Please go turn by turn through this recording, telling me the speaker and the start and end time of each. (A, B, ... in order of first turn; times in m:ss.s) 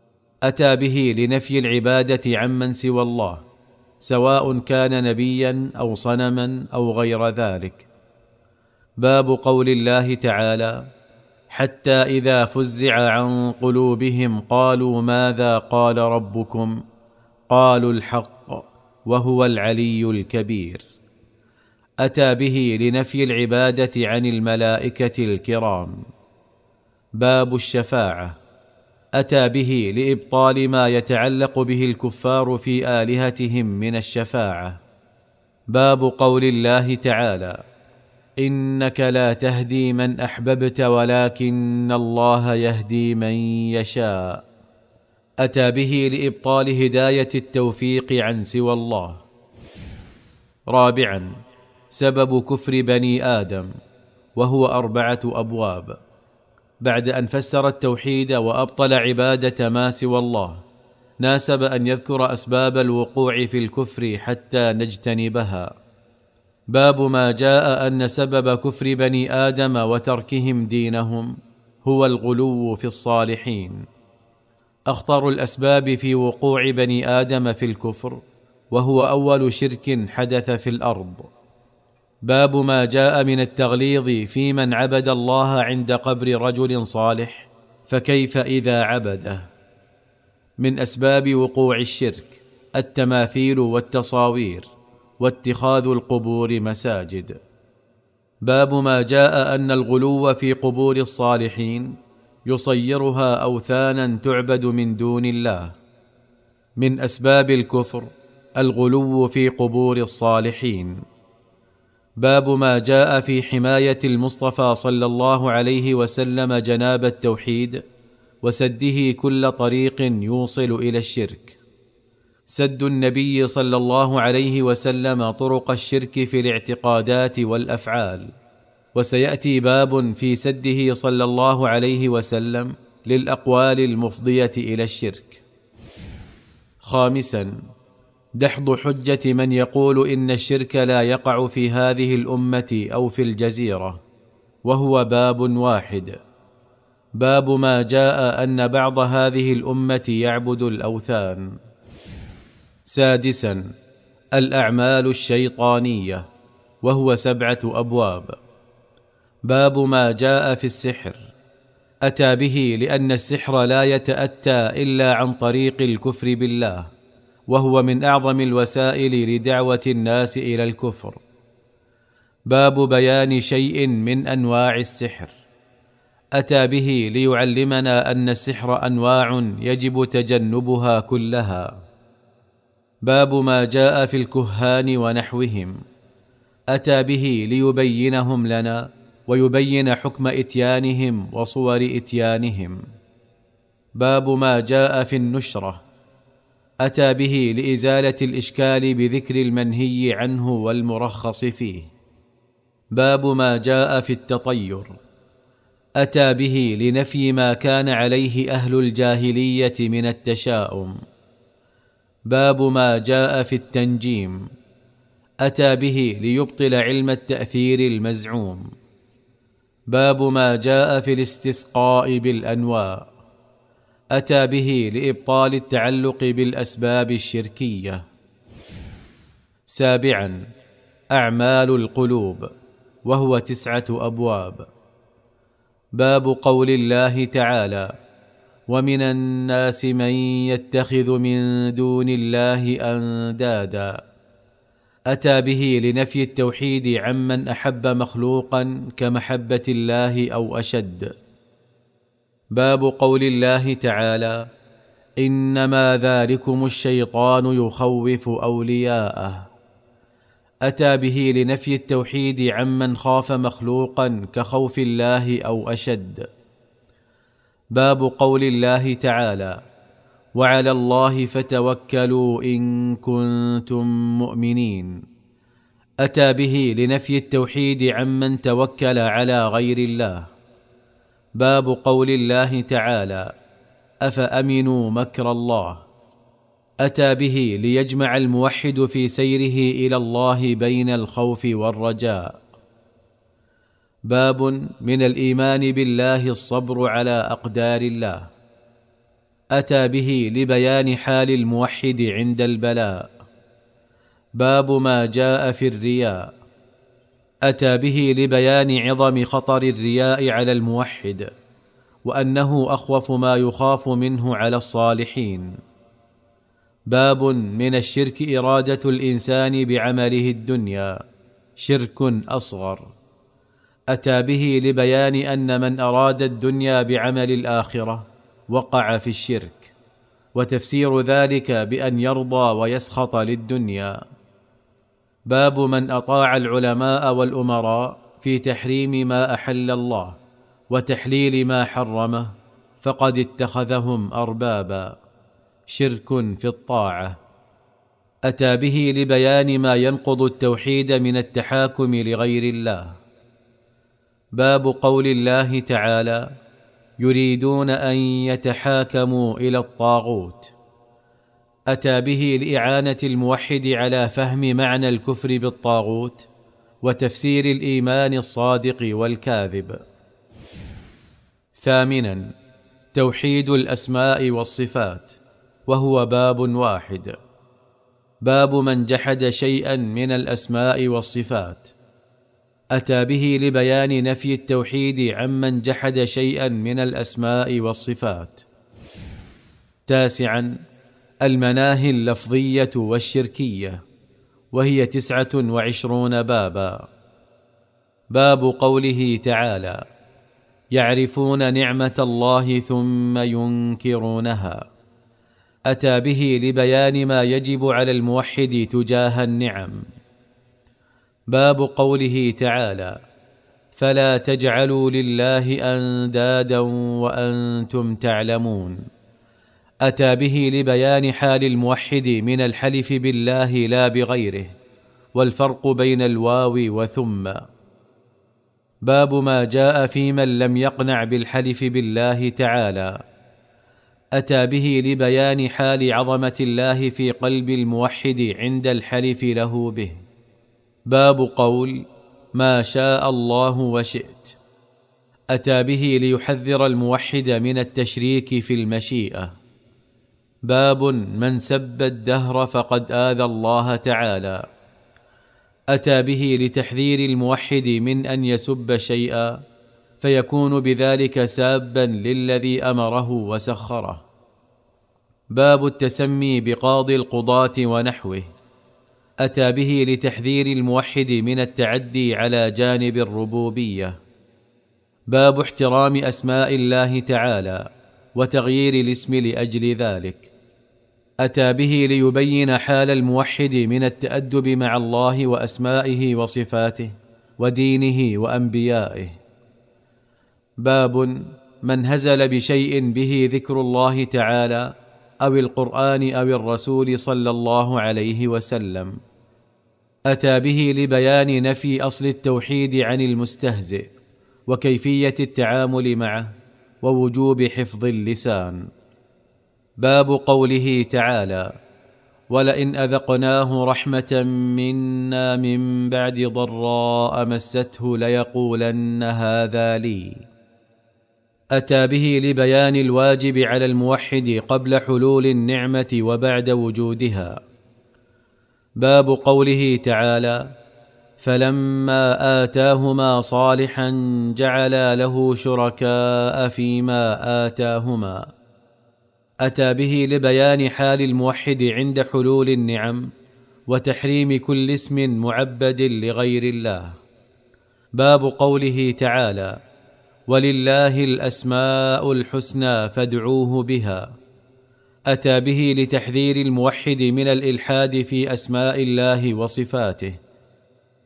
0:00.5-0:03.4 A
0:04.0-0:07.9 A
0:09.0-0:10.8 A
0:11.5-0:16.8 A
0:17.5-0:20.8 A
0:22.0-0:26.0 A
0:27.2-0:28.4 A
0:29.2-0:34.8 A
0:35.7-0:37.6 A
0:38.4-0:44.4 A
0:45.4-0:49.2 A
0:50.7-0:51.3 A
0:51.9-0:53.7 A
0:54.4-0:56.0 A
0:56.8-1:00.6 A
1:01.2-1:05.7 A
1:06.7-1:13.8 A
1:14.9-1:18.2 A
1:18.7-1:21.3 A
1:22.3-1:29.5 A
1:30.6-1:37.4 A
1:38.4-1:42.0 A
1:42.5-1:45.8 A
1:46.8-1:51.0 A
1:52.2-1:57.8 A
1:58.4-2:01.6 A
2:02.5-2:08.3 A
2:09.0-2:15.4 A
2:16.8-2:17.5 A
2:18.4-2:24.0 A
2:24.7-2:26.2 A
2:27.2-2:31.5 A
2:32.9-2:33.6 A
2:34.4-2:36.2 A
2:36.8-2:38.4 A
2:39.5-2:41.3 A
2:42.0-2:46.9 A
2:47.5-2:51.2 A
2:52.5-2:55.3 A
2:56.4-3:01.7 A
3:03.1-3:05.8 A
3:06.7-3:12.8 A
3:14.0-3:15.8 A
3:16.8-3:21.9 A
3:23.0-3:25.0 A
3:26.0-3:30.9 A
3:32.3-3:34.4 A
3:35.4-3:38.6 A
3:39.9-3:43.0 A
3:44.2-3:48.0 A
3:49.7-3:50.4 A
3:51.1-3:52.5 A
3:53.1-3:54.6 A
3:56.0-3:57.9 A
3:58.7-4:03.9 A
4:05.1-4:11.1 A
4:12.6-4:14.4 A
4:15.2-4:19.5 A
4:20.7-4:26.2 A
4:27.8-4:29.6 A
4:30.4-4:35.0 A
4:36.0-4:40.3 A
4:41.4-4:43.3 A
4:44.0-4:45.9 A
4:46.8-4:52.4 A
4:54.1-4:58.3 A
4:59.6-5:03.1 A
5:04.4-5:06.2 A
5:07.5-5:11.2 A
5:12.1-5:15.6 A
5:16.9-5:20.9 A
5:21.6-5:22.9 A
5:23.9-5:29.7 A
5:30.4-5:34.0 A
5:35.3-5:40.2 A
5:40.7-5:44.9 A
5:45.7-5:47.2 A
5:48.3-5:53.0 A
5:54.4-5:56.2 A
5:57.0-6:00.5 A
6:01.7-6:06.3 A
6:06.8-6:09.8 A
6:11.6-6:12.3 A
6:12.9-6:17.2 A
6:18.2-6:21.7 A
6:22.8-6:28.4 A
6:29.9-6:30.5 A
6:31.2-6:33.8 A
6:34.5-6:36.8 A
6:38.1-6:39.8 A
6:40.7-6:44.6 A
6:45.7-6:49.8 A
6:51.3-6:52.9 A
6:53.8-6:58.8 A
6:59.8-7:04.6 A
7:05.2-7:07.4 A
7:08.9-7:12.9 A
7:14.2-7:20.0 A
7:20.9-7:21.8 A
7:22.4-7:24.4 A
7:25.3-7:29.3 A
7:30.5-7:34.4 A
7:35.7-7:39.4 A
7:40.0-7:44.0 A
7:45.3-7:48.3 A
7:49.2-7:54.0 A
7:55.1-7:57.6 A
7:58.2-8:00.3 A
8:01.2-8:09.2 A
8:10.6-8:14.7 A
8:15.2-8:18.9 A
8:20.1-8:23.9 A
8:24.5-8:28.6 A
8:29.8-8:31.5 A
8:32.3-8:40.2 A
8:41.6-8:47.4 A
8:48.8-8:50.4 A
8:51.2-8:58.2 A
8:59.4-9:03.1 A
9:03.7-9:07.0 A
9:08.0-9:09.5 A
9:10.3-9:14.1 A
9:15.1-9:20.2 A